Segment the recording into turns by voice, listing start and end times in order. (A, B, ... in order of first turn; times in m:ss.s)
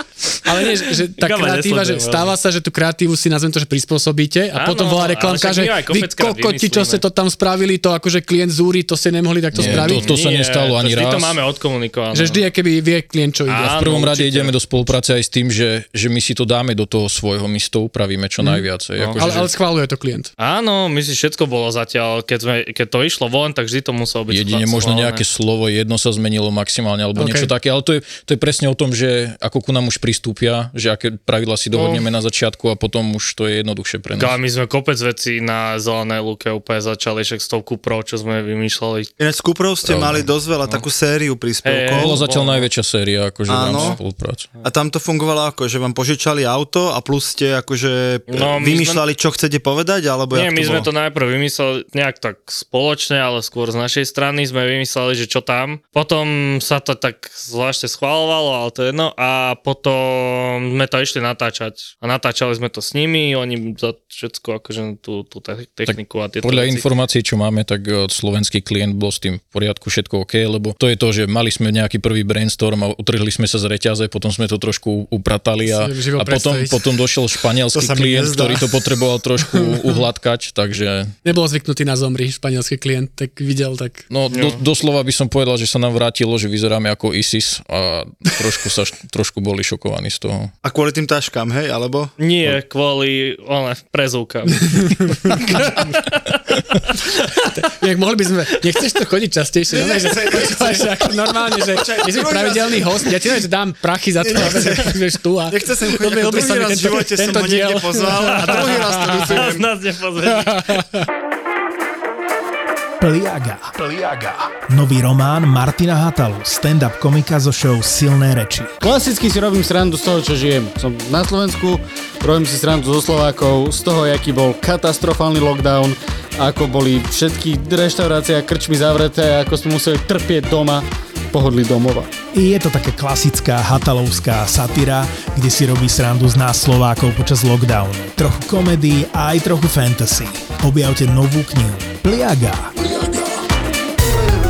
0:00.4-0:10.1 A
0:01.2-0:02.3 B
0:04.5-0:07.0 B
0:09.5-0:11.4 C
0:09.6-0:12.4 B
0:12.1-0:14.1 A
0:13.5-0:14.5 B
0:13.7-0:19.5 C
0:18.4-0:18.6 A
0:19.0-0:19.3 B
0:19.2-0:20.3 A
0:20.4-0:25.2 B
0:24.3-0:34.4 C
0:27.2-0:27.5 A
0:31.7-0:32.0 B
0:34.2-0:39.1 B
0:39.2-0:42.2 D
0:39.8-0:40.3 C
0:41.6-0:42.7 B
0:41.9-0:44.5 C
0:43.5-0:44.0 D
0:43.7-0:44.0 B
0:44.6-0:50.9 D
0:48.3-0:49.0 B
0:50.3-1:06.8 B
1:05.8-1:21.1 C
1:15.6-1:16.8 A
1:17.7-1:18.8 D
1:19.5-1:20.0 A
1:21.2-1:24.0 A
1:24.1-1:30.5 C
1:24.3-1:24.6 B
1:30.6-1:32.1 D
1:32.2-1:36.2 B
1:34.8-1:35.9 A
1:36.9-1:37.5 B
1:37.4-1:49.3 A
1:39.8-1:43.3 D
1:44.2-1:49.6 D
1:48.2-1:50.8 B
1:50.4-1:51.0 A
1:53.0-1:58.7 E
1:58.8-2:12.1 F
2:12.3-2:22.7 E